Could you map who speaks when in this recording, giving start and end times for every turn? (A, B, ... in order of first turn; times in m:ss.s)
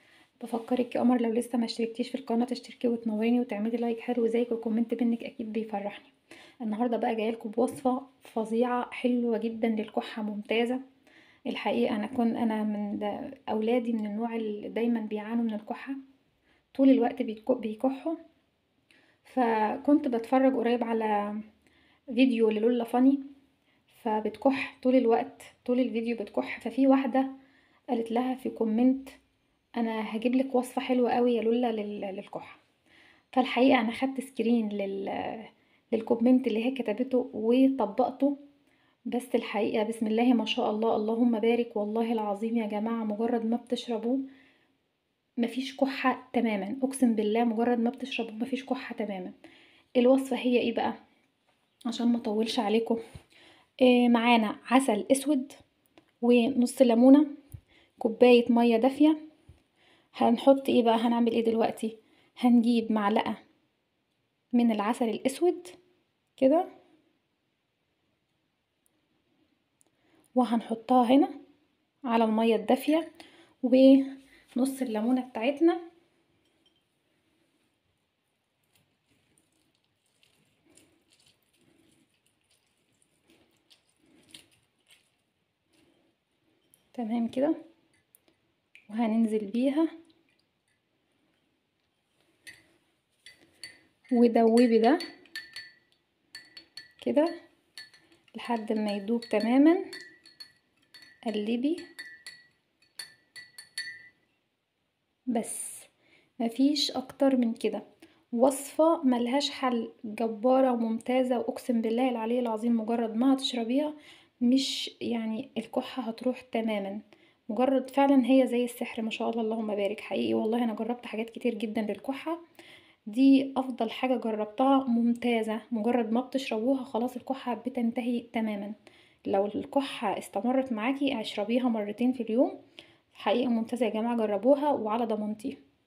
0:00.4-0:10.8 A
0:11.5-0:16.0 A
0:16.7-0:18.2 A
0:19.2-0:21.4 A
0:22.1-0:23.2 A
0:23.9-0:27.3 A
0:27.9-0:29.2 A
0:29.8-0:32.6 A
0:33.3-0:38.4 A
0:39.1-0:44.2 A
0:45.4-0:49.4 A
0:50.0-0:51.0 A
0:51.9-0:53.0 A
0:53.8-0:55.6 A
0:56.2-0:57.3 A
0:58.0-0:59.2 A
1:00.1-1:03.4 A
1:04.5-1:05.8 A
1:06.4-1:06.7 A
1:10.4-1:11.4 A
1:12.1-1:13.1 A
1:13.6-1:15.8 A
1:26.9-1:27.6 A
1:28.9-1:29.9 A
1:34.1-1:35.0 A
1:37.0-1:37.3 A
1:38.3-1:39.9 A
1:41.3-1:41.8 A
1:45.3-1:45.9 A
1:46.4-2:02.4 A
2:03.1-2:08.8 A
2:09.3-2:12.6 A
2:13.1-2:15.6 A